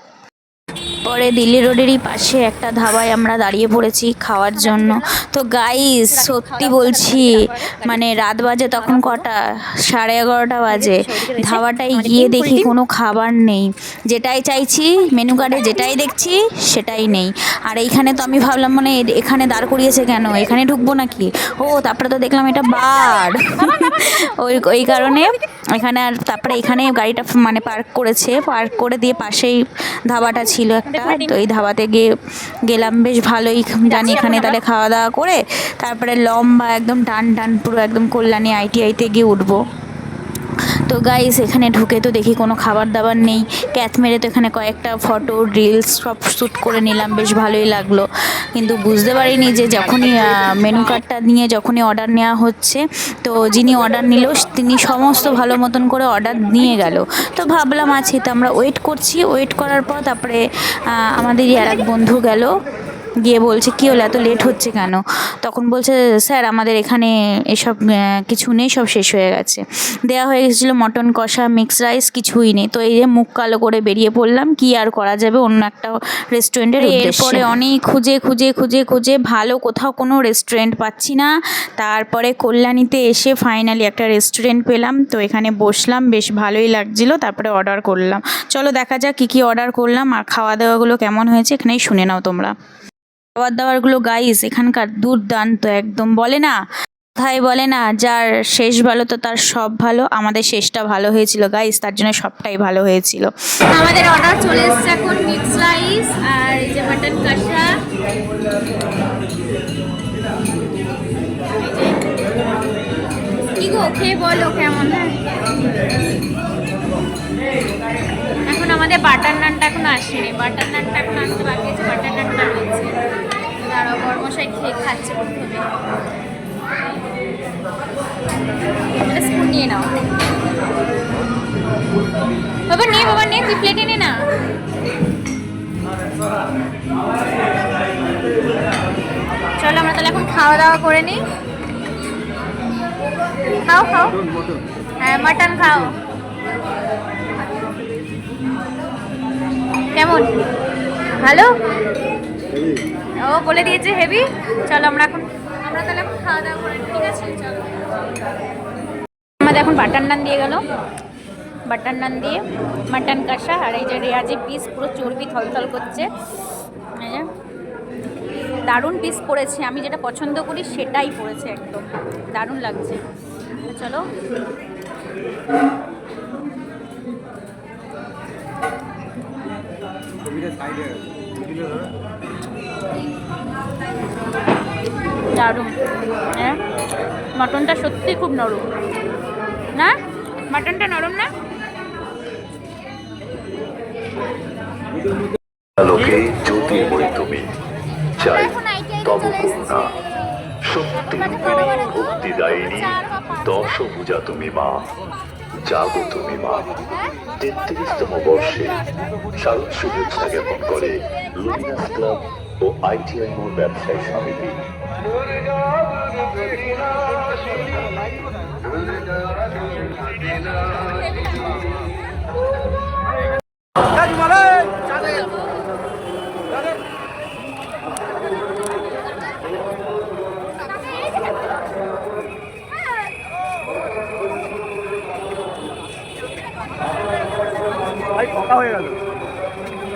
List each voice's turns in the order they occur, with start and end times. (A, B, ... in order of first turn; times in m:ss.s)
0:01.0-0:29.6 A
0:04.5-0:05.1 B
0:06.0-0:08.0 B
0:08.7-0:09.2 B
0:10.7-0:12.7 B
0:23.5-0:24.2 B
0:30.1-0:32.1 A
0:30.9-0:31.4 B
0:32.6-0:39.6 A
0:33.8-0:34.6 B
0:40.9-1:00.4 A
1:01.0-1:02.5 A
1:03.2-1:32.5 A
1:16.8-1:17.4 B
1:33.4-1:36.6 A
1:37.2-1:43.3 A
1:43.7-1:47.8 B
1:51.6-1:52.1 B
1:53.6-1:55.2 B
1:58.4-2:03.0 B
2:03.6-2:05.7 B
2:08.9-2:09.9 B
2:12.7-2:14.1 B
2:19.6-2:21.2 B
2:23.6-2:24.2 B
2:25.0-2:25.9 B
2:29.9-2:30.3 B
2:31.2-2:31.5 B
2:33.2-2:37.7 B
2:39.4-2:40.6 B
2:41.7-2:46.0 B
2:47.0-2:47.3 B
2:48.6-2:53.0 B
2:53.6-2:54.0 B
3:05.3-3:05.7 B
3:06.3-3:06.6 B
3:07.3-3:08.6 B
3:10.5-3:11.3 B
3:15.8-3:17.5 C
3:18.2-3:19.9 C
3:18.6-3:19.0 B
3:20.6-3:24.8 C
3:25.6-3:26.8 C
3:27.4-3:34.6 C